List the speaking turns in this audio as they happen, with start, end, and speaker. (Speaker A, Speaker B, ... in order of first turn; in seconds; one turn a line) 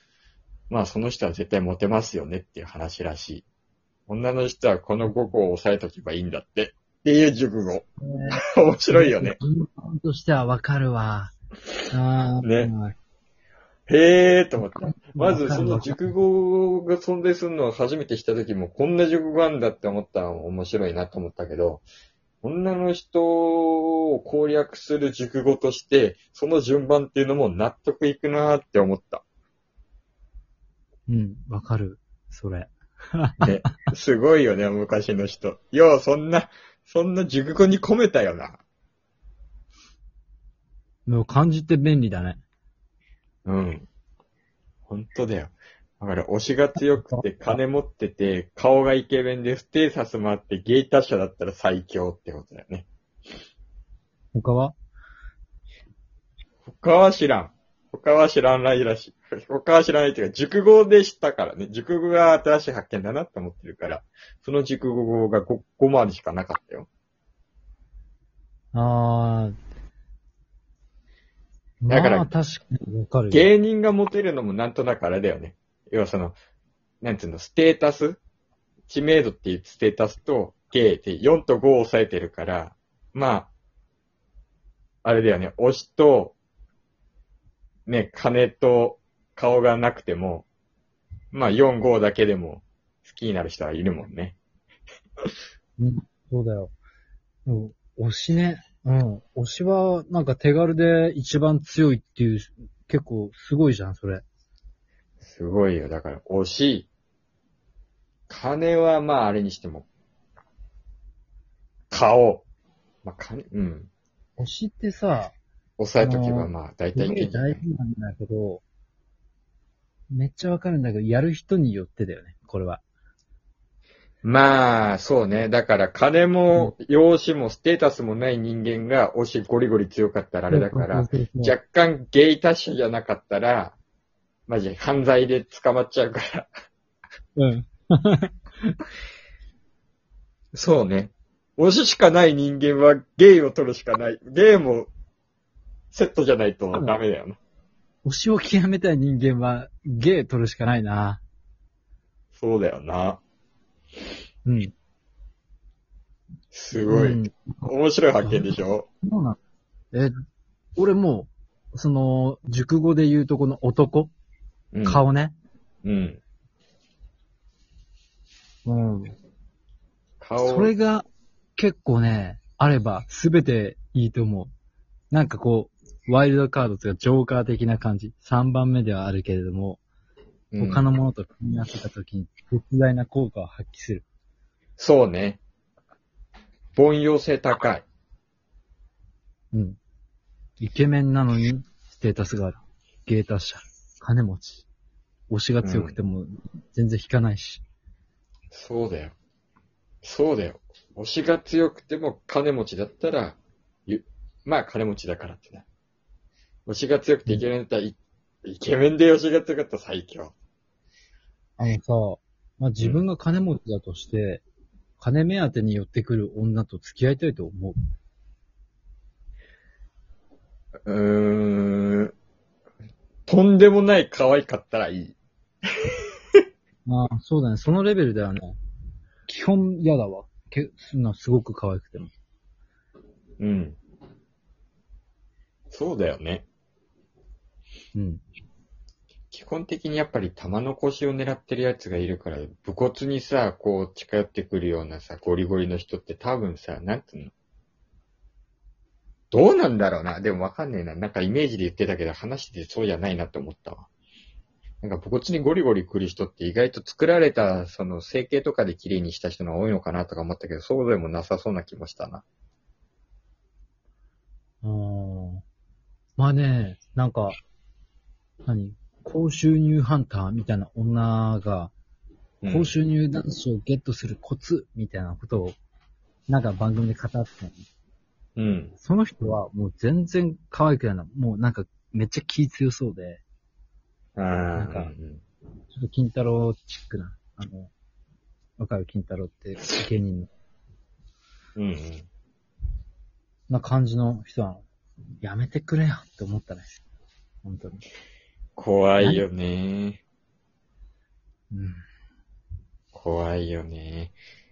Speaker A: 0.7-3.5
Speaker A: 4.1-9.4
Speaker B: 8.0-8.4
Speaker B: 8.9-11.3
Speaker B: 11.9-12.9
Speaker A: 12.4-12.7
Speaker A: 13.9-21.8
Speaker B: 14.6-16.1
Speaker A: 22.4-29.2
Speaker B: 31.1-33.7
Speaker A: 33.4-38.6
Speaker B: 41.1-42.4
Speaker A: 43.5-43.9
Speaker A: 44.9-52.9
Speaker B: 46.9-47.6
Speaker B: 54.3-54.8
Speaker A: 56.6-66.9
Speaker B: 68.7-69.5
Speaker B: 71.8-73.5
Speaker A: 71.9-72.3
Speaker A: 73.3-76.4
Speaker A: 77.0-78.2
Speaker A: 78.9-83.5
Speaker A: 85.0-86.4
Speaker A: 87.9-90.5
Speaker A: 91.3-94.4
Speaker B: 95.8-96.7
Speaker B: 97.5-104.2
Speaker A: 105.2-106.9
Speaker A: 108.3-109.9
Speaker A: 111.9-112.5
Speaker A: 113.0-113.9
Speaker B: 114.4-115.3
Speaker A: 115.8-117.6
Speaker B: 116.0-118.6
Speaker B: 120.1-122.8
Speaker A: 124.2-133.8
Speaker B: 130.5-131.6
Speaker A: 134.5-136.5
Speaker B: 137.4-138.8
Speaker A: 140.5-144.9
Speaker A: 145.9-147.4
Speaker B: 146.7-147.0
Speaker B: 148.1-151.2
Speaker A: 152.3-153.2
Speaker B: 154.5-154.7
Speaker A: 156.5-158.9
Speaker B: 156.8-157.3
Speaker B: 158.2-159.4
Speaker B: 159.9-160.2
Speaker B: 160.8-164.1
Speaker A: 164.7-165.0
Speaker B: 164.8-165.4
Speaker A: 165.8-166.2
Speaker B: 168.7-169.2
Speaker A: 170.2-170.7
Speaker B: 170.4-171.1
Speaker B: 171.6-174.5
Speaker B: 175.1-179.8
Speaker A: 180.5-180.9
Speaker B: 180.6-184.1
Speaker A: 184.8-185.4
Speaker A: 186.8-187.8
Speaker B: 189.5-189.8
Speaker B: 190.6-194.7
Speaker B: 195.3-197.6
Speaker A: 195.6-196.0
Speaker A: 198.5-199.2
Speaker A: 200.0-205.7
Speaker A: 206.7-210.3
Speaker B: 211.6-214.4
Speaker B: 215.0-217.8
Speaker A: 220.9-222.1
Speaker A: 223.3-225.2
Speaker A: 225.8-226.4
Speaker B: 226.9-228.6
Speaker B: 229.3-232.1
Speaker A: 233.4-233.8
Speaker A: 235.7-236.5
Speaker B: 237.9-238.2
Speaker A: 239.3-247.3
Speaker A: 249.3-253.9
Speaker A: 254.8-262.2
Speaker B: 264.6-265.4
Speaker B: 266.2-267.4
Speaker B: 268.5-271.7
Speaker A: 272.4-272.8
Speaker B: 272.5-275.6
Speaker B: 276.3-277.6
Speaker A: 278.4-278.7
Speaker B: 278.8-283.2
Speaker A: 284.2-285.2
Speaker B: 284.6-284.9
Speaker B: 285.7-287.7
Speaker B: 288.6-290.3
Speaker A: 291.6-292.1
Speaker B: 293.5-294.7
Speaker B: 295.2-296.8
Speaker B: 297.4-297.8
Speaker A: 298.6-300.0
Speaker B: 301.5-301.8
Speaker A: 302.9-304.1